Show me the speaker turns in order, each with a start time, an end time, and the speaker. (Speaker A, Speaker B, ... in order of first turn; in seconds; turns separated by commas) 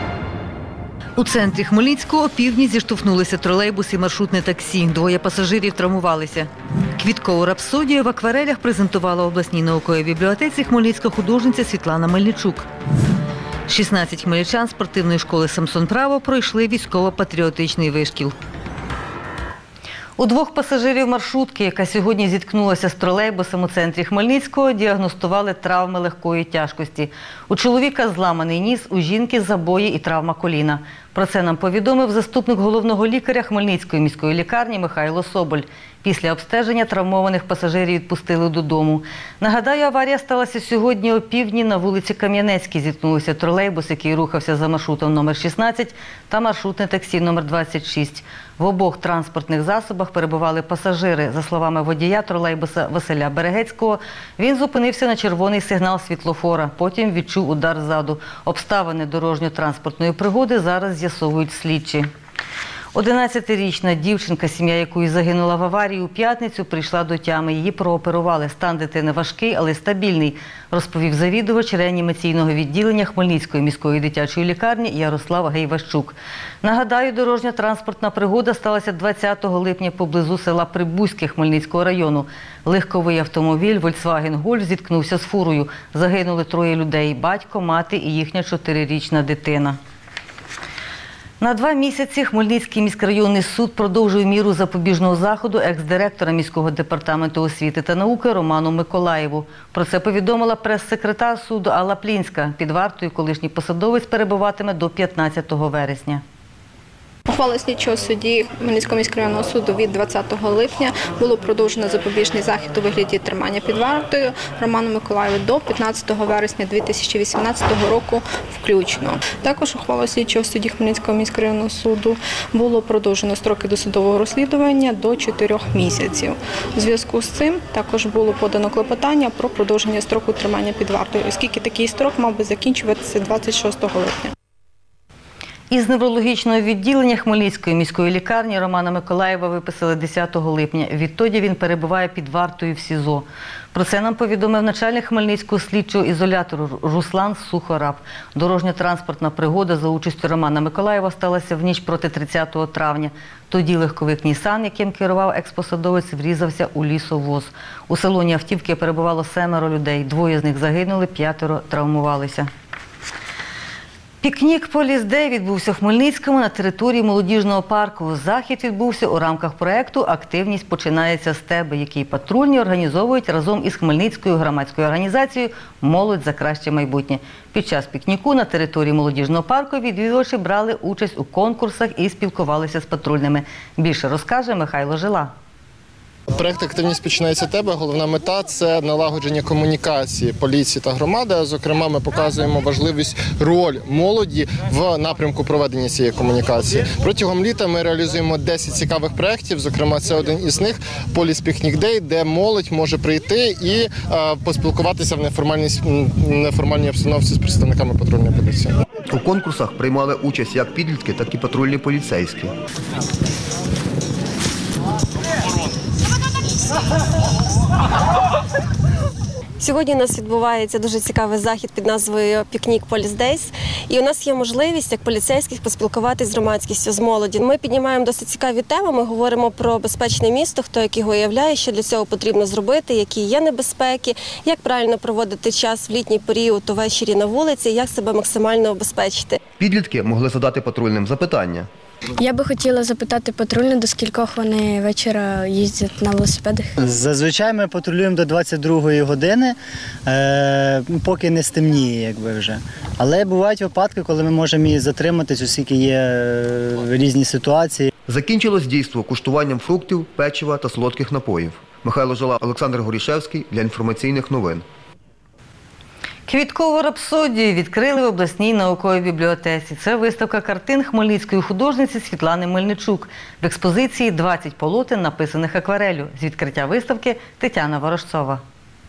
Speaker A: 1.2-12.7, Speaker A: 13.7-18.3, Speaker A: 20.2-62.1, Speaker A: 62.9-89.8, Speaker A: 91.4-106.2, Speaker B: 107.3-134.3, Speaker A: 135.7-162.5, Speaker A: 164.2-185.3, Speaker C: 186.4-208.7, Speaker D: 209.1-212.5, Speaker E: 219.6-239.4, Speaker D: 239.6-241.7, Speaker F: 242.2-246.7, Speaker G: 246.9-249.5, Speaker G: 250.1-257.9, Speaker D: 258.1-264.6, Speaker A: 266.3-278.4